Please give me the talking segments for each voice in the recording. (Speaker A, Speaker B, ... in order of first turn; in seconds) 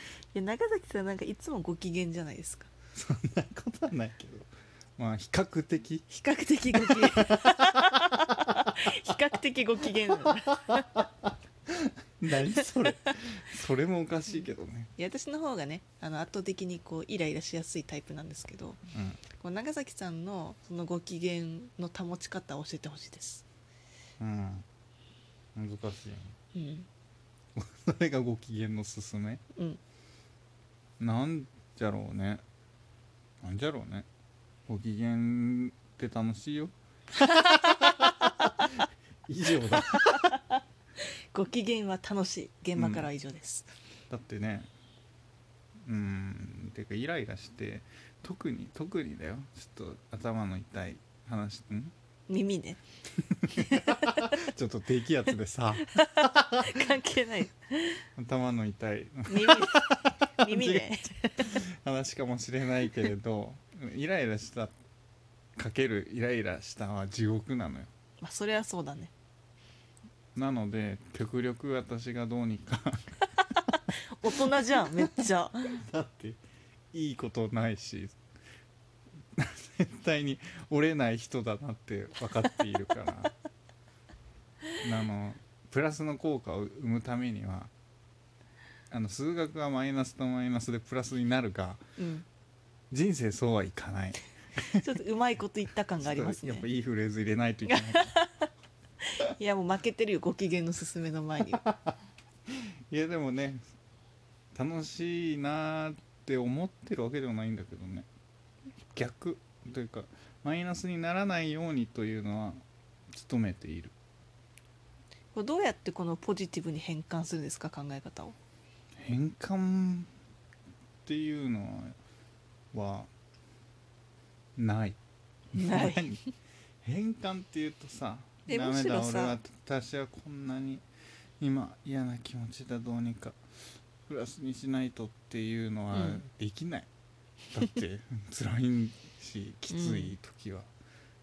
Speaker A: 0.3-2.7, 6.1-10.9, 12.5-13.1, 15.0-18.8, 19.4-23.4, 26.5-26.9, 37.3-38.6, 40.1-40.6, 41.3-43.7, 52.3-52.8, 53.6-54.3, 55.9-58.0, 59.3-61.6, 68.2-69.1, 73.7-75.8, 92.0-92.2, 94.7-96.7, 97.7-98.5, 99.2-101.6, 115.3-118.3, 125.5-126.2, 128.5-129.4, 135.9-136.2, 139.7-140.2
Speaker B: 2.9-6.0, 6.7-8.1, 10.2-11.0, 11.7-14.9, 18.9-19.2, 24.2-24.6, 25.5-26.4, 27.6-29.4, 31.0-32.4, 33.4-34.1, 34.7-36.7, 37.4-40.3, 42.8-43.1, 44.1-44.7, 45.8-51.9, 53.2-56.7, 58.2-60.9, 61.4-64.7, 65.5-67.9, 70.3-73.2, 74.6-75.1, 75.8-76.4, 76.9-78.1, 79.3-83.3, 84.8-87.7, 88.9-91.8, 92.9-95.0, 96.0-98.1, 101.6-102.0, 102.5-103.6, 104.5-108.1, 108.9-113.9, 119.0-120.1, 121.0-122.0, 122.7-123.1, 124.5-125.0, 125.5-126.2, 126.8-130.8, 131.4-133.4, 134.1-136.9, 137.5-140.7